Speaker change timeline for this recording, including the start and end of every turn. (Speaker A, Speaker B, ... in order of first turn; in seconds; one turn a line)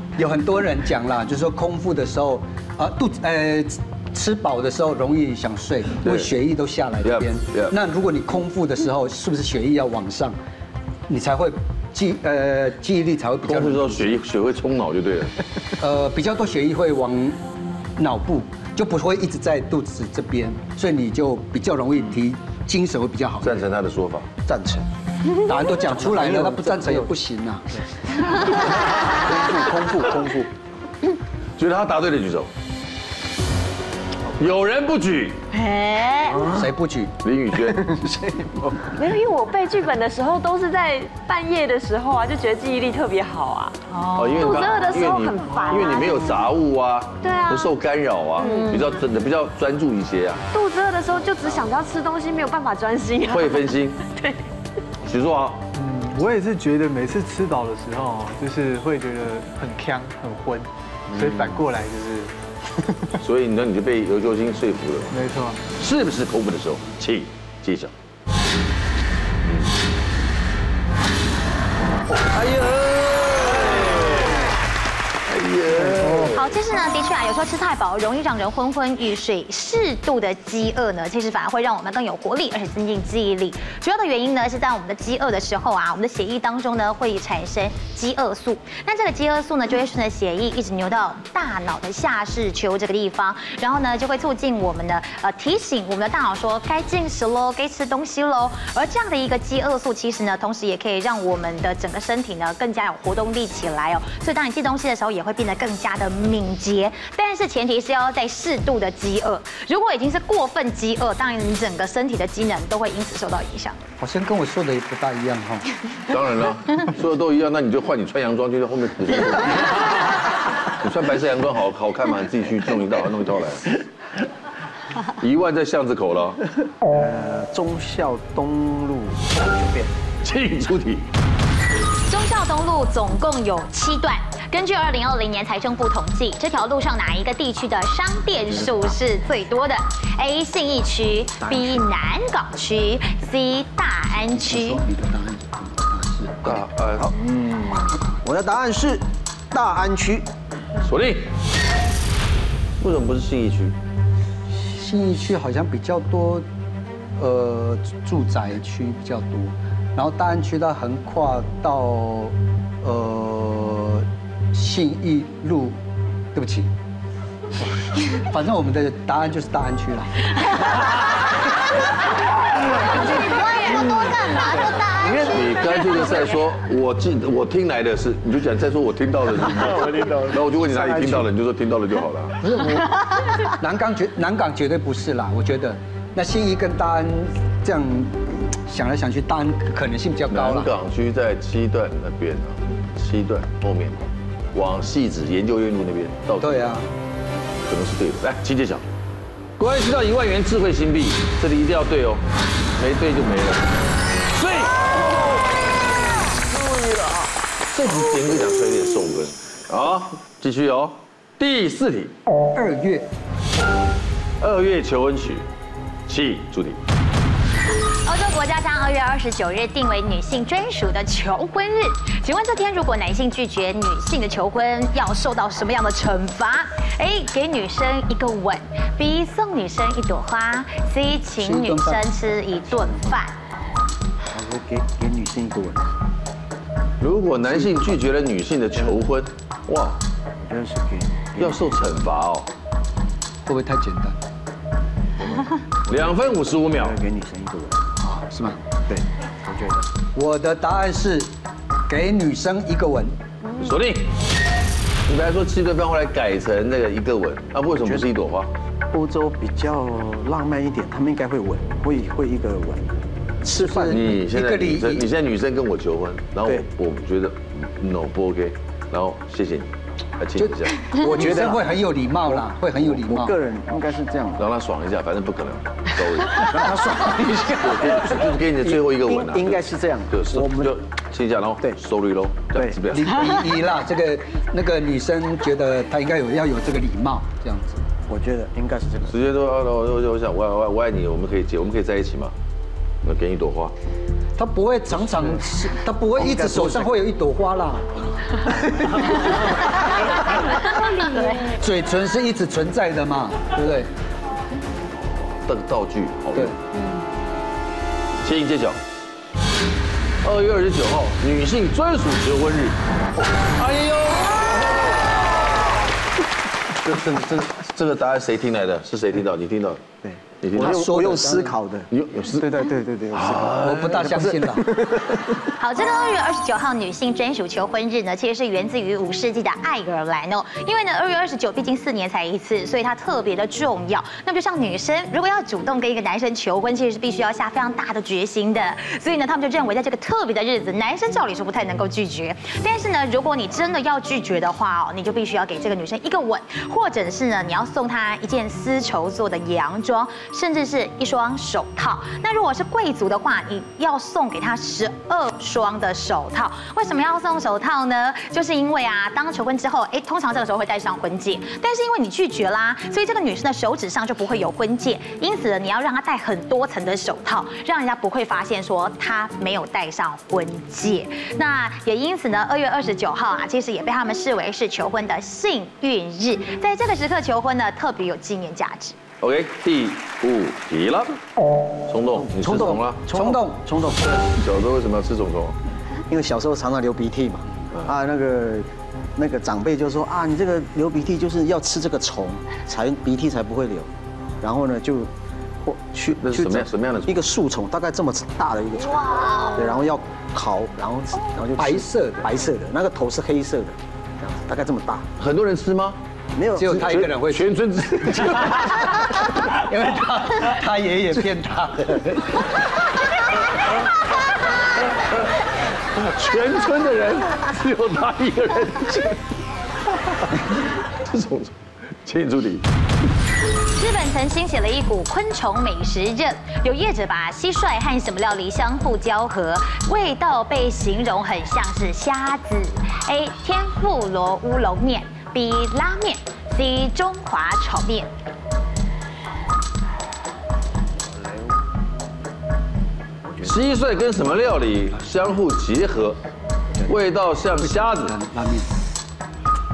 Speaker A: 0.2-10.4
Speaker B: 6.0-6.3
Speaker B: 7.0-7.8
Speaker A: 11.1-14.2
Speaker B: 13.5-15.3
Speaker A: 15.8-17.4
Speaker A: 18.0-23.7
Speaker B: 23.4-24.3
Speaker C: 24.4-24.9
Speaker A: 25.4-27.7
Speaker C: 25.8-27.1
Speaker C: 28.4-30.5
Speaker B: 31.6-32.5
Speaker B: 34.4-35.4
Speaker D: 35.5-36.5
Speaker A: 36.5-37.1
Speaker B: 37.2-38.0
Speaker C: 37.7-38.9
Speaker D: 39.0-46.5
Speaker B: 44.1-50.4
Speaker D: 47.2-47.7
Speaker D: 48.4-49.0
Speaker D: 50.5-54.4
Speaker B: 53.3-54.0
Speaker B: 55.0-55.6
Speaker E: 55.8-62.3
Speaker B: 63.2-65.1
Speaker E: 65.1-65.6
Speaker B: 65.8-67.9
Speaker B: 69.4-69.7
Speaker B: 72.1-74.5
Speaker B: 75.3-76.6
Speaker F: 76.3-113.8
Speaker A: 114.0-115.7
Speaker B: 116.1-123.8
Speaker B: 125.1-126.4
Speaker C: 126.9-129.9
Speaker B: 130.2-131.1
Speaker F: 132.1-144.8
Speaker C: 141.4-141.8
Speaker A: 144.3-146.6
Speaker B: 146.4-147.1
Speaker C: 147.0-150.3
Speaker B: 150.8-151.3
Speaker B: 152.8-153.7
Speaker A: 154.6-156.5
Speaker A: 157.2-165.8
Speaker A: 166.3-166.7
Speaker A: 168.1-170.6
Speaker D: 173.2-175.2
Speaker B: 175.0-182.4
Speaker A: 182.4-190.7
Speaker B: 190.3-196.7
Speaker A: 196.4-196.9
Speaker B: 197.7-198.8
Speaker B: 199.6-202.2
Speaker B: 202.8-203.7
Speaker B: 204.3-205.0
Speaker B: 207.7-212.1
Speaker A: 212.5-213.1
Speaker B: 214.4-215.4
Speaker B: 216.1-216.8
Speaker F: 218.1-233.3
Speaker A: 231.4-232.1
Speaker C: 234.3-235.9
Speaker B: 237.0-240.0
Speaker C: 237.5-238.0
Speaker C: 240.4-242.1
Speaker B: 241.4-242.5
Speaker A: 243.5-244.2
Speaker C: 245.9-247.9
Speaker B: 245.9-247.0
Speaker A: 248.0-248.6
Speaker C: 248.9-249.9
Speaker A: 250.2-251.3
Speaker A: 251.9-253.1
Speaker B: 253.6-254.1
Speaker B: 255.1-258.5
Speaker C: 257.8-258.1
Speaker C: 258.9-264.0
Speaker A: 263.5-265.1
Speaker B: 263.9-271.3
Speaker A: 270.4-273.4
Speaker C: 270.9-274.4
Speaker B: 274.4-276.8
Speaker C: 276.3-280.8
Speaker B: 277.4-283.5
Speaker A: 282.9-287.8
Speaker C: 288.1-289.1
Speaker B: 289.1-292.3
Speaker B: 293.0-293.7
Speaker A: 294.4-297.9
Speaker C: 296.2-296.9
Speaker A: 298.4-299.2
Speaker A: 301.4-303.9
Speaker B: 305.3-306.6
Speaker B: 308.2-308.8
Speaker B: 310.2-312.8
Speaker B: 313.6-314.9
Speaker B: 316.8-319.8
Speaker C: 320.0-325.4
Speaker B: 320.4-321.3
Speaker A: 320.6-321.5
Speaker B: 321.9-322.5
Speaker B: 323.1-324.2
Speaker A: 323.5-324.9
Speaker F: 325.6-379.0
Speaker B: 379.2-381.2
Speaker B: 381.9-383.1
Speaker C: 382.2-384.4
Speaker A: 382.4-383.7
Speaker B: 383.9-385.6
Speaker C: 386.1-405.1
Speaker B: 396.1-397.2
Speaker A: 401.6-402.3
Speaker B: 405.2-406.0
Speaker C: 406.3-407.1
Speaker A: 406.6-412.5
Speaker B: 406.7-409.1
Speaker B: 416.0-419.2
Speaker B: 421.0-422.6
Speaker F: 423.8-438.1
Speaker C: 443.2-443.6
Speaker B: 443.4-446.2
Speaker B: 446.9-448.1
Speaker A: 447.6-448.7